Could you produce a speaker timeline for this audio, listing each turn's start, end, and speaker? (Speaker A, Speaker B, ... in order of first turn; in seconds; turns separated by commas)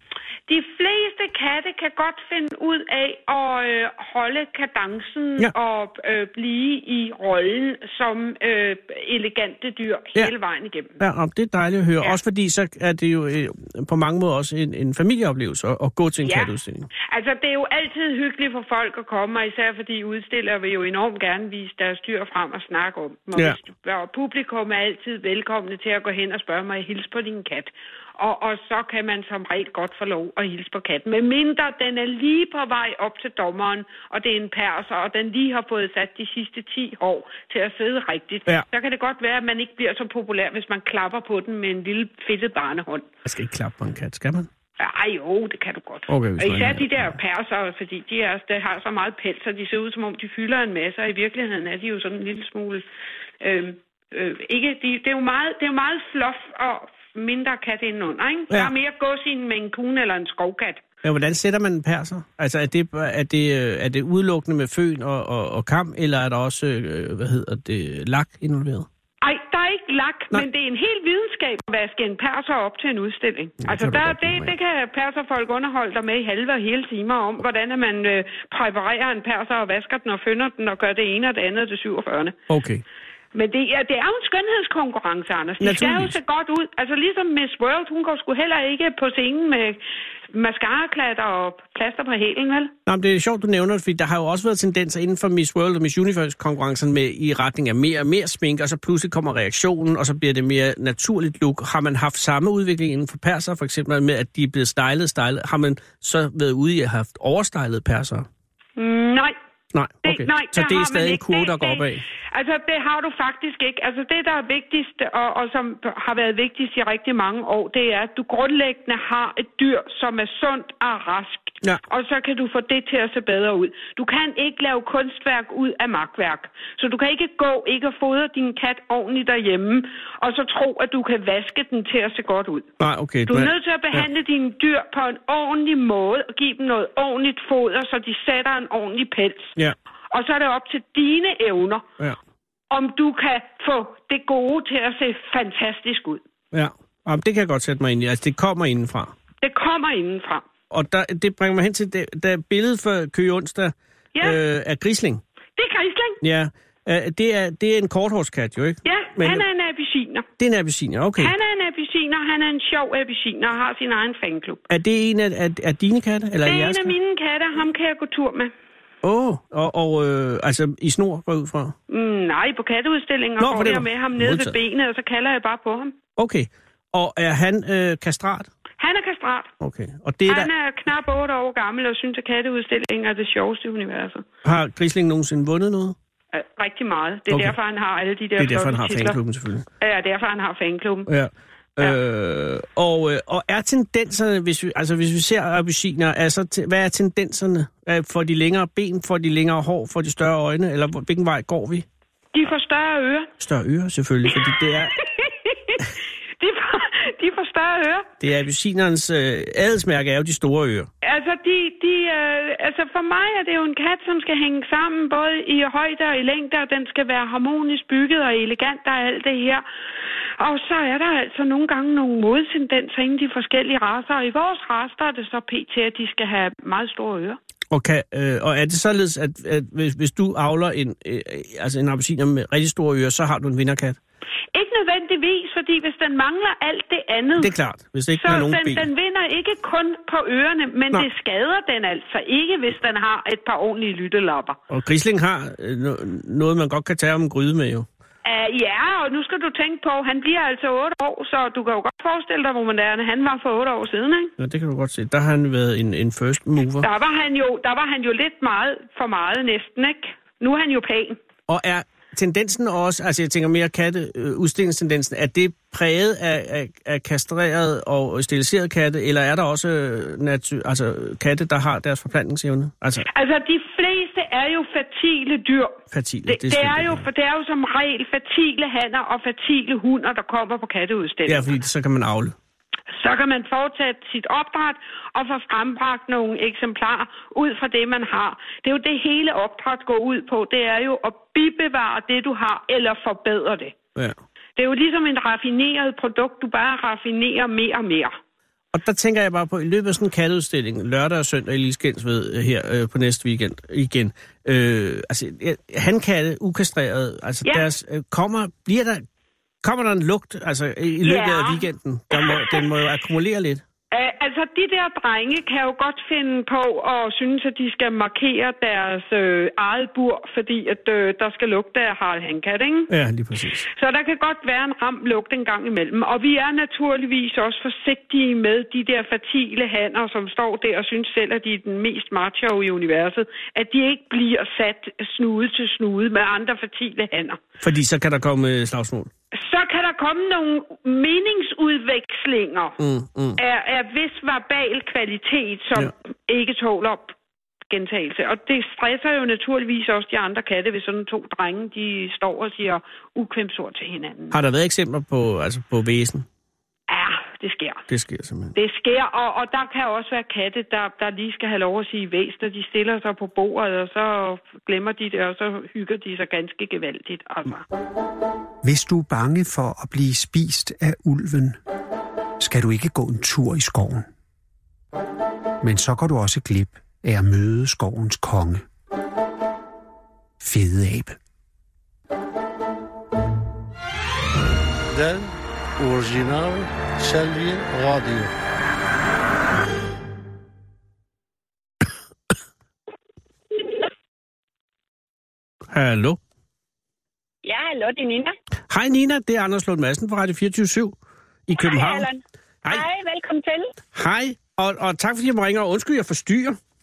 Speaker A: 0.5-11.0, Speaker B: 11.0-16.9, Speaker A: 16.2-43.1, Speaker B: 43.2-44.5, Speaker A: 44.8-52.8, Speaker B: 46.1-47.2, Speaker A: 53.4-60.8, Speaker B: 61.0-68.9, Speaker A: 69.2-82.4, Speaker B: 73.6-74.5, Speaker B: 82.5-82.8, Speaker A: 83.3-89.8, Speaker B: 85.6-86.2, Speaker A: 90.3-92.7, Speaker B: 92.9-108.3, Speaker A: 108.8-109.3, Speaker B: 109.7-112.0, Speaker A: 110.0-132.7, Speaker B: 132.8-134.1, Speaker A: 133.3-139.5, Speaker A: 140.1-141.8, Speaker A: 142.7-146.2, Speaker B: 146.5-149.1, Speaker A: 149.4-150.4, Speaker B: 150.7-155.2, Speaker A: 155.6-156.2, Speaker B: 156.2-159.4, Speaker A: 158.8-160.3, Speaker B: 160.4-161.3, Speaker A: 161.2-164.7, Speaker B: 164.7-166.9, Speaker A: 166.4-168.5, Speaker B: 169.0-171.8, Speaker A: 171.9-176.0, Speaker B: 173.4-174.6, Speaker B: 176.2-178.5, Speaker A: 178.8-179.5, Speaker B: 179.6-180.5, Speaker A: 180.3-184.2, Speaker B: 184.4-186.0, Speaker A: 186.3-189.2, Speaker B: 187.3-187.6, Speaker B: 188.4-189.7, Speaker A: 189.8-191.1, Speaker B: 191.1-201.9, Speaker A: 202.3-203.3, Speaker B: 203.4-205.0, Speaker A: 205.0-205.9, Speaker A: 206.4-208.1, Speaker B: 208.2-210.9, Speaker A: 211.0-219.6, Speaker A: 220.4-227.4, Speaker B: 227.7-234.0, Speaker A: 234.5-237.5, Speaker B: 237.4-238.9, Speaker A: 238.2-244.6, Speaker B: 244.7-247.9, Speaker A: 248.2-254.3, Speaker B: 254.4-256.9, Speaker A: 256.8-261.2, Speaker B: 261.5-273.1, Speaker A: 273.1-281.5, Speaker B: 275.9-277.1, Speaker B: 281.3-282.4, Speaker A: 282.9-293.8, Speaker A: 294.6-298.1, Speaker B: 298.7-309.1, Speaker B: 309.6-313.6, Speaker A: 311.0-312.7, Speaker A: 313.9-322.9, Speaker B: 322.9-323.7, Speaker A: 323.7-337.4, Speaker B: 337.6-339.1, Speaker A: 339.3-342.8, Speaker B: 342.8-343.4, Speaker A: 343.4-347.1, Speaker A: 347.7-354.4, Speaker B: 354.3-356.3, Speaker A: 356.9-357.8, Speaker B: 357.9-358.6, Speaker A: 358.6-367.7, Speaker C: 368.6-371.6, Speaker C: 372.4-374.1, Speaker C: 375.6-378.6, Speaker C: 380.4-381.2, Speaker D: 384.9-388.3, Speaker B: 395.7-396.2, Speaker E: 397.4-398.3, Speaker B: 398.7-401.0, Speaker B: 401.5-402.1, Speaker E: 401.5-403.7, Speaker B: 403.9-406.6